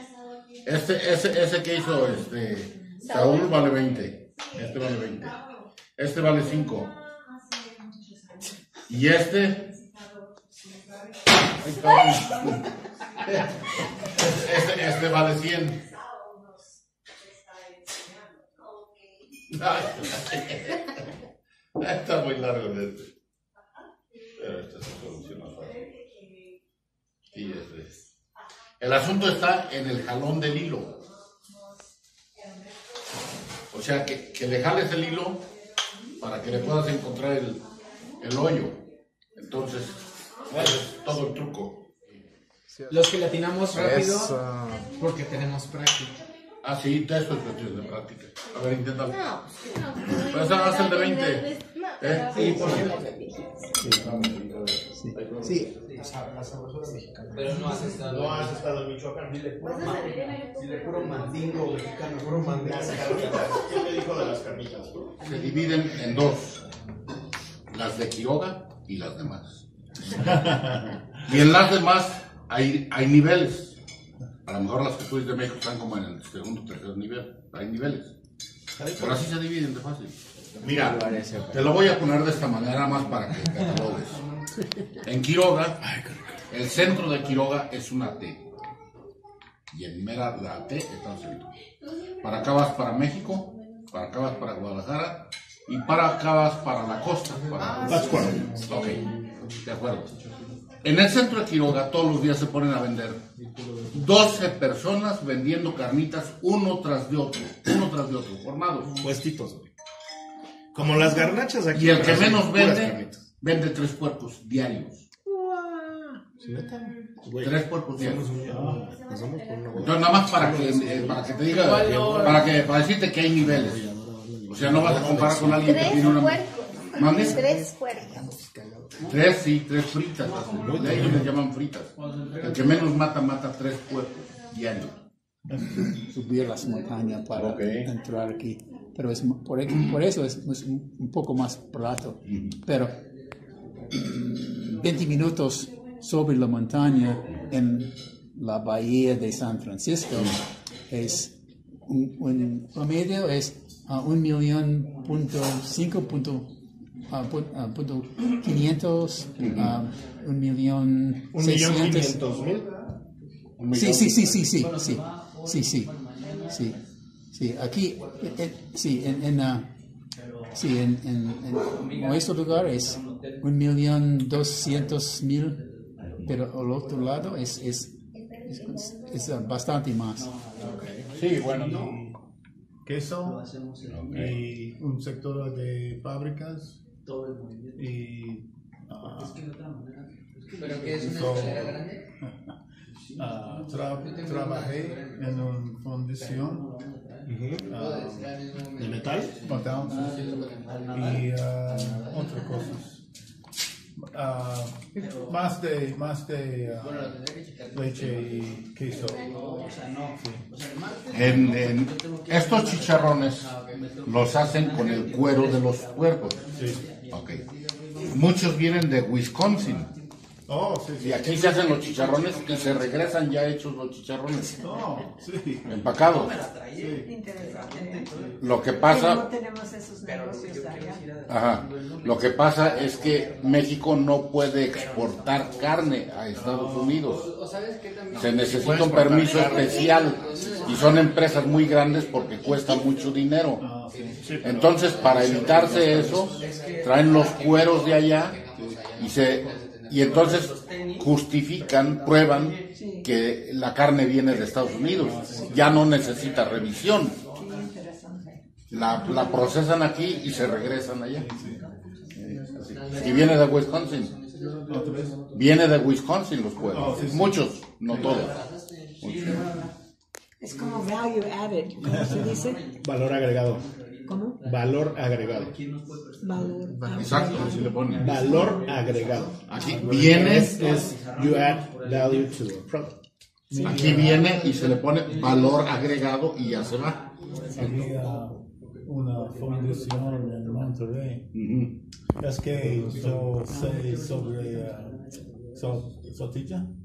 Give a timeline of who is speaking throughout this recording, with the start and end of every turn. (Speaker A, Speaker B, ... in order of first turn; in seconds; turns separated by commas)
Speaker A: 0.6-5.4, Speaker B: 3.0-3.7, Speaker A: 6.0-6.9, Speaker A: 8.9-9.7, Speaker A: 11.6-12.6, Speaker A: 13.2-13.5, Speaker A: 14.2-15.9, Speaker A: 19.5-20.7, Speaker A: 21.8-23.1, Speaker A: 24.4-25.8, Speaker A: 27.3-27.9, Speaker A: 28.8-31.0, Speaker A: 33.7-35.5, Speaker A: 36.2-37.6, Speaker A: 38.2-38.8, Speaker A: 39.4-41.9, Speaker C: 42.9-44.3, Speaker D: 43.7-44.8, Speaker C: 44.9-46.1, Speaker A: 46.6-49.2, Speaker B: 49.1-53.6, Speaker A: 50.2-52.9, Speaker E: 52.4-52.6, Speaker F: 52.4-52.8, Speaker D: 53.9-55.7, Speaker E: 54.9-55.7, Speaker F: 55.9-65.2, Speaker C: 57.3-58.6, Speaker B: 59.8-60.4, Speaker C: 59.8-61.8, Speaker A: 65.2-66.6, Speaker A: 67.7-73.8, Speaker A: 74.5-78.1, Speaker A: 78.9-84.2, Speaker C: 80.6-82.0, Speaker A: 85.0-85.8, Speaker A: 86.5-88.4, Speaker A: 89.7-91.5, Speaker A: 92.2-100.1, Speaker F: 97.9-98.7, Speaker A: 100.8-103.2, Speaker A: 103.9-109.0, Speaker F: 109.0-109.7, Speaker F: 110.7-113.2, Speaker A: 111.7-115.1, Speaker F: 115.3-121.3, Speaker A: 117.4-118.2, Speaker G: 118.5-118.8, Speaker A: 119.7-123.8, Speaker C: 121.5-122.4, Speaker F: 123.4-126.0, Speaker A: 124.5-126.4, Speaker B: 125.6-128.3, Speaker A: 126.9-127.5, Speaker F: 128.3-128.9, Speaker A: 129.0-134.9, Speaker D: 130.7-131.3, Speaker C: 132.0-132.8, Speaker E: 136.1-142.9, Speaker A: 137.3-137.9, Speaker A: 142.3-142.6, Speaker E: 143.9-151.3, Speaker E: 151.8-156.5, Speaker E: 157.1-162.1, Speaker A: 159.4-159.7, Speaker F: 161.3-162.8, Speaker A: 163.6-164.3, Speaker E: 163.7-165.9, Speaker C: 164.6-166.8, Speaker E: 166.4-166.8, Speaker E: 167.3-169.7, Speaker E: 170.5-175.6, Speaker C: 172.0-173.3, Speaker E: 176.2-180.3, Speaker C: 180.2-181.4, Speaker A: 181.1-181.9, Speaker G: 181.4-182.2, Speaker G: 182.8-183.5, Speaker A: 183.9-184.3, Speaker G: 184.1-186.8, Speaker G: 187.7-189.5, Speaker C: 190.4-192.0, Speaker G: 190.7-192.4, Speaker G: 193.1-196.8, Speaker C: 193.8-195.3, Speaker F: 197.3-197.7, Speaker C: 197.5-202.7, Speaker G: 197.6-198.3, Speaker F: 198.8-199.4, Speaker G: 199.4-203.0, Speaker G: 203.9-207.2, Speaker C: 206.8-218.4, Speaker G: 207.7-209.4, Speaker E: 209.2-209.9, Speaker G: 210.2-210.4, Speaker A: 211.1-216.4, Speaker G: 216.5-216.8, Speaker A: 217.1-217.4, Speaker A: 218.1-219.9, Speaker C: 219.3-220.0, Speaker G: 220.5-221.5, Speaker A: 221.0-224.8, Speaker C: 221.2-223.2, Speaker G: 224.6-225.8, Speaker A: 225.7-226.4, Speaker C: 225.9-228.9, Speaker G: 226.8-227.1, Speaker H: 227.0-228.1, Speaker A: 228.4-229.3, Speaker H: 228.8-231.0, Speaker C: 230.0-243.3, Speaker A: 231.3-237.3, Speaker A: 238.1-243.7, Speaker B: 239.5-239.9, Speaker G: 243.6-244.3, Speaker C: 243.9-252.7, Speaker F: 244.2-246.1, Speaker A: 244.4-248.4, Speaker A: 248.9-257.2, Speaker H: 252.7-253.1, Speaker C: 254.3-257.7, Speaker G: 255.0-255.9, Speaker H: 255.3-255.6, Speaker H: 257.3-258.4, Speaker G: 258.7-259.0, Speaker A: 258.7-261.3, Speaker C: 259.1-265.2, Speaker G: 261.1-261.6, Speaker A: 262.2-264.1, Speaker G: 264.7-265.2, Speaker A: 265.3-268.4, Speaker G: 266.7-268.3, Speaker C: 267.9-269.7, Speaker A: 269.0-269.4, Speaker H: 270.4-272.6, Speaker C: 271.9-272.9, Speaker F: 272.8-273.7, Speaker H: 274.1-274.4, Speaker C: 274.1-282.4, Speaker F: 274.4-275.6, Speaker H: 276.2-277.6, Speaker F: 276.7-276.9, Speaker A: 276.9-278.2, Speaker F: 278.0-282.9, Speaker A: 279.5-280.7, Speaker G: 279.6-280.1, Speaker G: 283.5-284.4, Speaker A: 283.6-287.9, Speaker C: 283.7-285.9, Speaker C: 286.7-288.3, Speaker G: 287.5-291.3, Speaker A: 291.3-291.8, Speaker G: 292.2-296.7